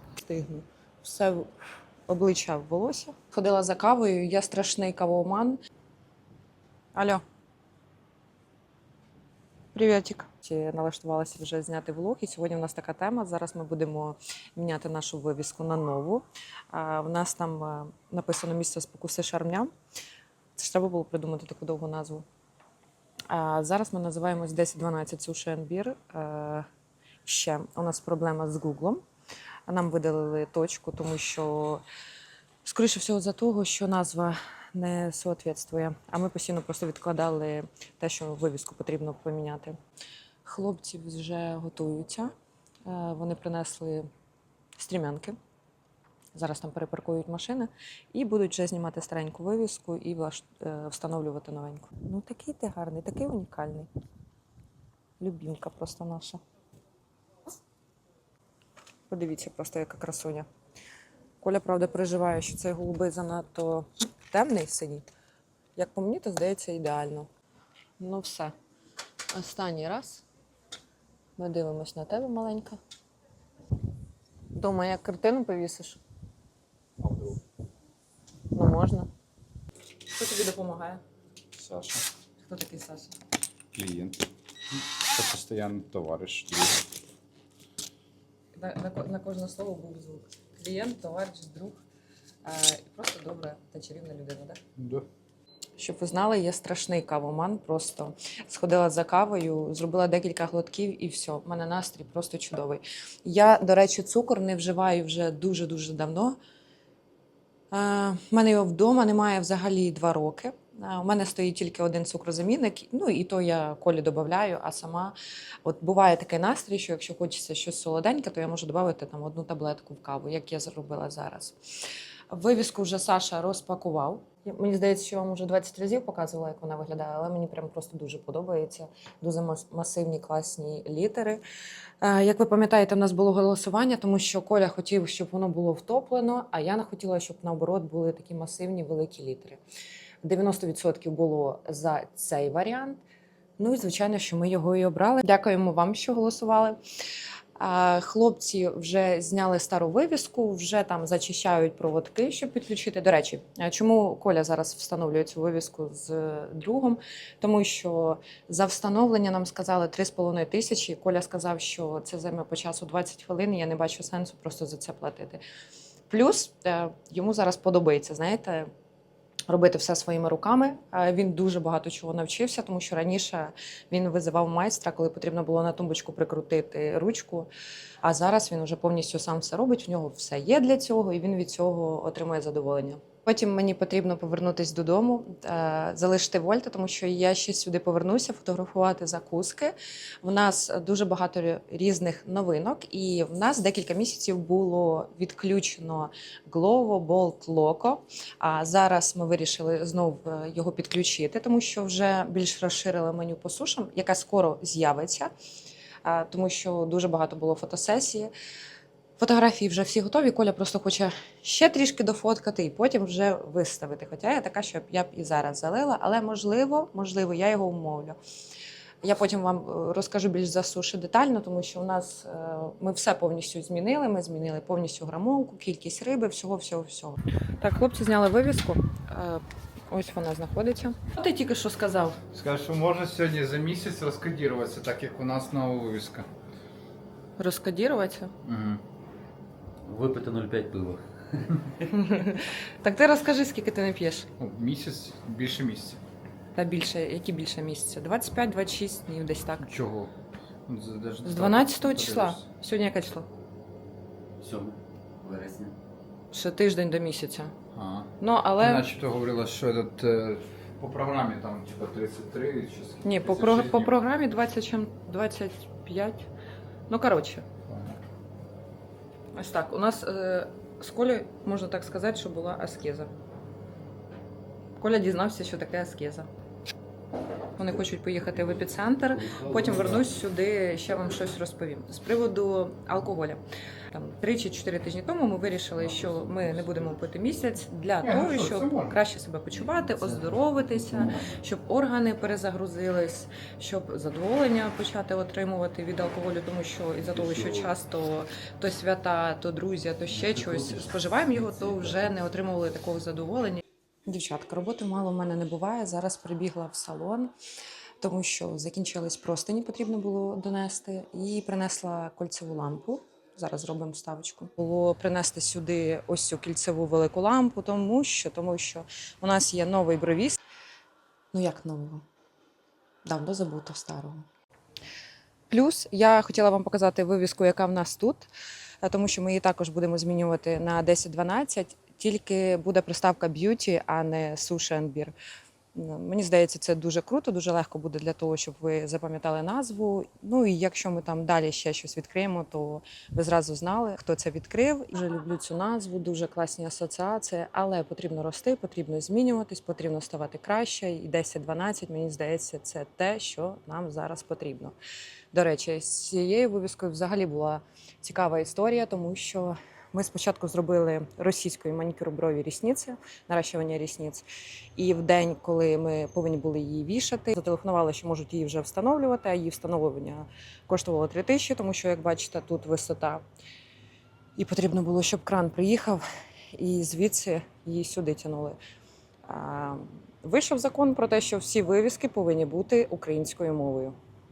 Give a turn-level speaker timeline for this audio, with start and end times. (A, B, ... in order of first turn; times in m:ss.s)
0:00.2-0:01.5 A
0:02.1-0:05.6 A
0:06.9-0:07.2 A
0:09.7-0:19.7 A
0:20.6-0:22.2 A
0:23.3-0:26.7 A
0:27.2-0:29.0 A
0:29.7-0:31.8 A
0:32.6-0:39.8 A
0:40.4-0:42.3 A
0:42.8-0:44.1 A
0:44.8-0:45.4 A
0:46.3-0:53.9 A
0:55.2-0:56.4 A
0:59.1-1:00.5 A
1:01.4-1:05.1 A
1:05.8-1:07.3 A
1:08.0-1:08.5 A
1:09.3-1:10.2 A
1:11.4-1:12.8 A
1:14.5-1:16.0 A
1:17.0-1:17.4 B
1:18.5-1:19.1 A
1:20.1-1:21.0 A
1:21.5-1:22.0 B
1:22.4-1:23.2 A
1:23.7-1:24.2 B
1:24.7-1:26.8 B
1:28.5-1:31.8 A
1:32.4-1:34.6 A
1:34.8-1:35.1 B
1:35.8-1:46.4 A
1:47.7-2:01.6 A
2:02.3-2:11.4 A
2:12.0-2:19.6 A
2:20.2-2:23.0 A
2:23.6-2:26.8 A
2:27.6-2:45.4 A
2:46.1-2:48.7 A
2:49.5-2:57.5 A
2:58.0-3:25.3 A
3:26.0-3:28.3 A
3:29.2-3:38.2 A
3:39.0-3:52.2 A
3:52.3-3:56.3 B
3:57.4-3:58.3 A
3:58.4-3:58.8 B
3:59.8-4:01.9 C
4:01.9-4:04.3 A
4:04.4-4:06.0 B
4:06.5-4:09.6 A
4:09.6-4:10.1 B
4:10.6-4:12.4 B
4:11.2-4:13.3 A
4:14.4-4:15.7 C
4:16.3-4:17.5 A
4:17.7-4:23.9 B
4:18.2-4:18.8 A
4:23.0-4:26.3 A
4:26.9-4:27.4 A
4:27.6-4:28.0 B
4:29.3-4:33.1 A
4:34.8-4:36.3 A
4:37.6-5:07.3 A
4:39.6-4:39.9 C
4:48.0-4:49.0 B
4:49.6-4:50.0 C
4:57.1-4:57.7 C
5:00.1-5:01.9 C
5:08.0-5:20.4 A
5:21.3-5:22.0 A
5:23.0-5:24.2 A
5:25.5-5:28.3 A
5:28.8-5:35.1 A
5:35.7-5:54.7 A
5:55.3-6:04.2 A
6:04.8-6:13.2 A
6:14.4-6:18.6 A
6:19.3-6:24.0 A